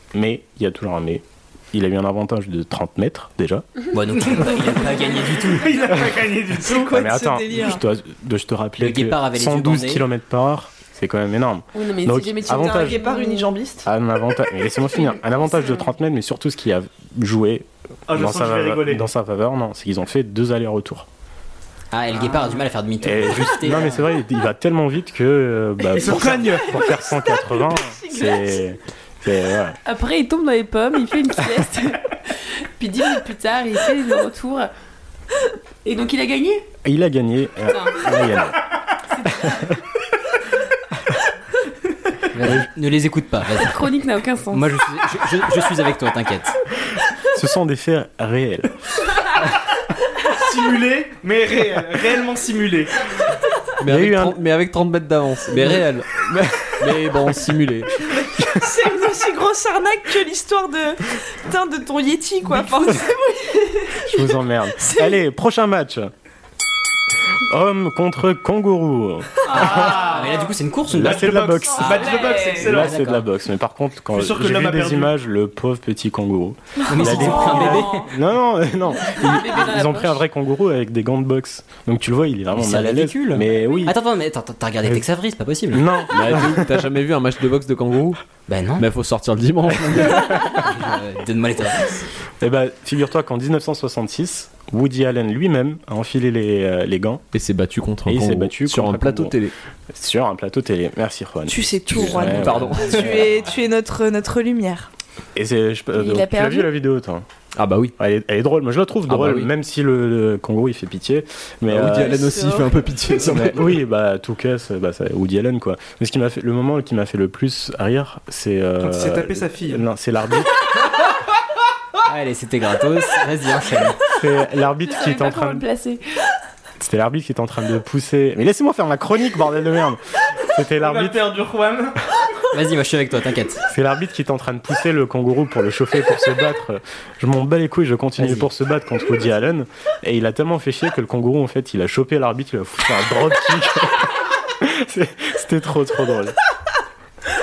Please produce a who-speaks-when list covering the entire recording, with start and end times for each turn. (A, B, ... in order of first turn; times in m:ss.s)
0:00.1-0:03.6 A
0:03.9-0:05.9 B
0:05.5-0:06.9 C
0:06.6-0:07.8 D
0:06.9-0:13.0 A
0:08.8-0:10.0 B
0:11.7-0:13.5 E
0:12.5-0:13.9 D
0:13.8-0:21.1 A
0:15.4-0:15.8 E
0:18.1-0:19.1 C
0:21.9-0:24.0 B
0:23.0-0:29.8 A
0:25.9-0:26.7 C
0:26.8-0:28.6 E
0:29.8-0:34.7 E
0:35.8-0:36.6 E
0:36.8-0:38.6 A
0:37.7-0:38.0 E
0:39.1-0:39.6 E
0:39.3-0:39.7 A
0:42.3-0:43.8 B
0:42.4-0:42.7 A
0:43.6-0:44.6 E
0:44.5-0:46.5 B
0:47.3-0:48.7 A
0:50.3-0:52.9 C
0:53.8-0:57.9 F
0:53.8-0:54.4 A
0:56.2-0:57.0 A
0:58.4-1:04.0 D
1:04.0-1:06.1 A
1:04.8-1:05.2 D
1:07.3-1:10.0 A
1:09.5-1:13.2 B
1:09.6-1:10.2 C
1:10.9-1:23.9 A
1:11.0-1:13.0 C
1:11.9-1:12.6 E
1:14.1-1:15.1 C
1:16.9-1:18.1 B
1:17.0-1:18.1 E
1:19.0-1:20.2 E
1:22.5-1:25.9 B
1:25.7-1:26.8 A
1:26.1-1:28.2 F
1:28.5-1:28.9 B
1:28.8-1:30.5 F
1:30.2-1:32.1 B
1:32.4-1:37.2 A
1:37.3-1:39.5 F
1:38.0-1:39.4 A
1:39.9-1:43.4 A
1:41.5-1:44.9 D
1:41.9-1:43.5 B
1:42.1-1:43.1 F
1:45.3-1:47.2 A
1:45.9-1:46.7 E
1:47.5-1:47.9 F
1:48.0-1:52.3 A
1:49.1-1:49.5 F
1:51.7-1:53.8 F
1:52.0-1:52.7 E
1:52.2-1:52.6 D
1:53.2-2:00.6 A
1:58.8-1:59.8 C
2:02.0-2:04.0 B
2:04.2-2:05.6 A
2:04.9-2:06.0 E
2:06.8-2:11.3 A
2:10.8-2:12.0 C
2:12.5-2:13.6 B
2:13.7-2:26.4 A
2:18.2-2:18.5 B